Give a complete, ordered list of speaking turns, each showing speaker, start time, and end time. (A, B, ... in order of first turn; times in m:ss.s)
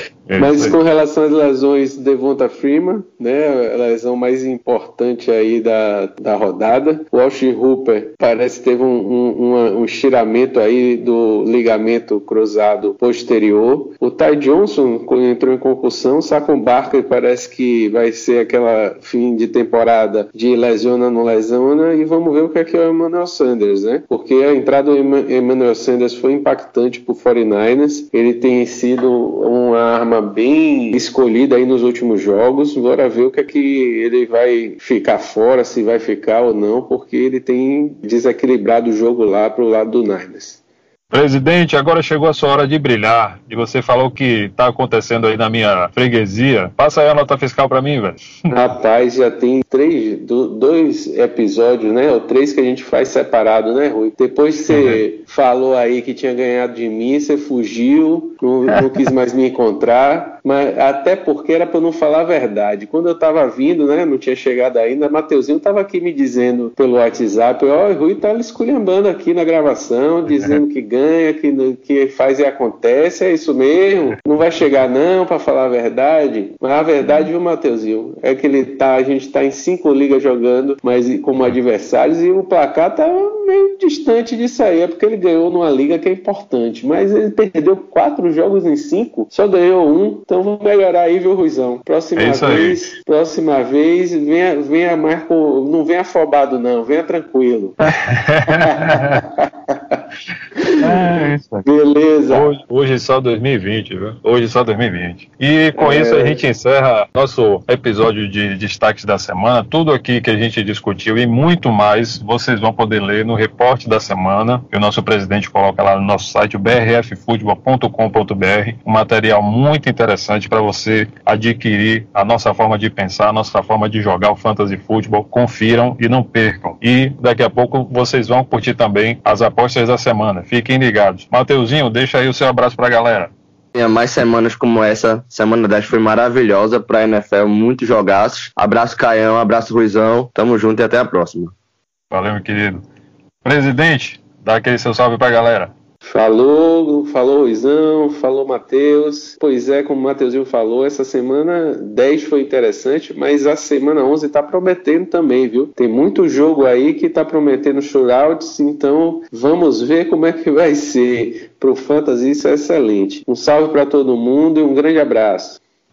0:00.3-0:00.8 A
0:00.4-0:40.6 B
0:41.1-0:48.5 A
0:48.5-1:37.8 B
0:54.7-0:55.0 A
1:32.2-1:32.8 A
1:37.8-1:39.2 A
1:38.5-1:40.0 B
1:40.6-1:42.5 B
1:40.8-1:41.6 A
1:42.3-2:13.3 A
1:45.8-1:46.4 B
2:13.7-2:21.5 C
2:22.1-2:22.8 A
2:23.4-2:25.7 A
2:26.0-2:45.6 B